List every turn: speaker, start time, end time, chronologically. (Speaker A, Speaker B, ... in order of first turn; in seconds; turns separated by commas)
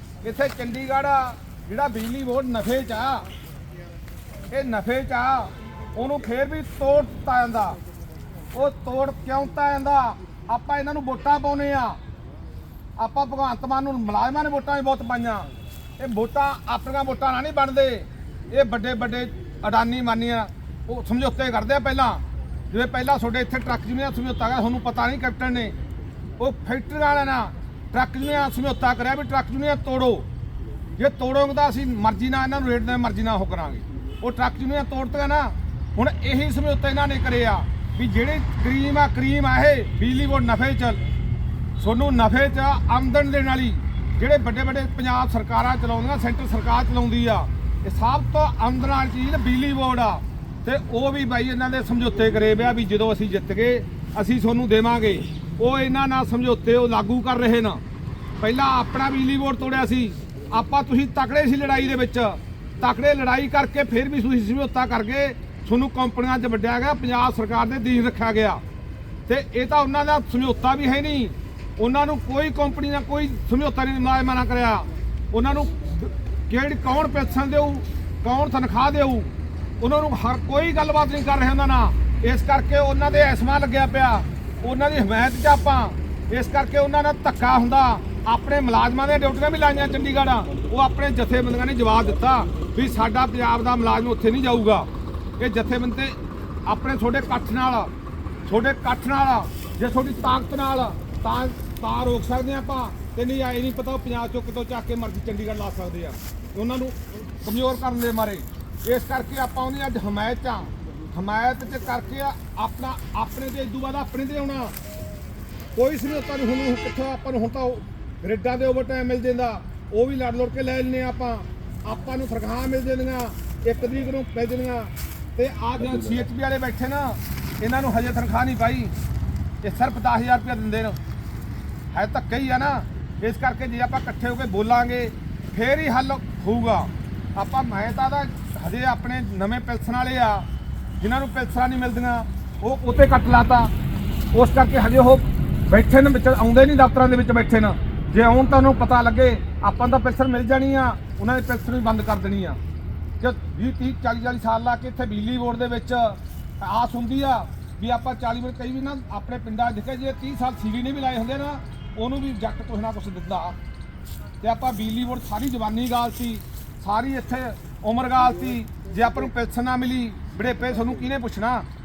Speaker A: 0.2-3.3, Speaker A: 4.5-7.8, Speaker A: 8.5-12.0, Speaker A: 13.0-15.5, Speaker A: 16.0-25.8, Speaker A: 26.4-30.3, Speaker A: 31.0-41.0, Speaker A: 41.8-57.8, Speaker A: 58.4-68.6, Speaker A: 69.3-97.9, Speaker A: 98.5-114.8, Speaker A: 115.8-128.9, Speaker A: 129.6-131.0, Speaker A: 131.9-140.5, Speaker A: 141.0-143.7, Speaker A: 144.3-152.6, Speaker A: 153.2-163.6, Speaker A: 164.4-171.7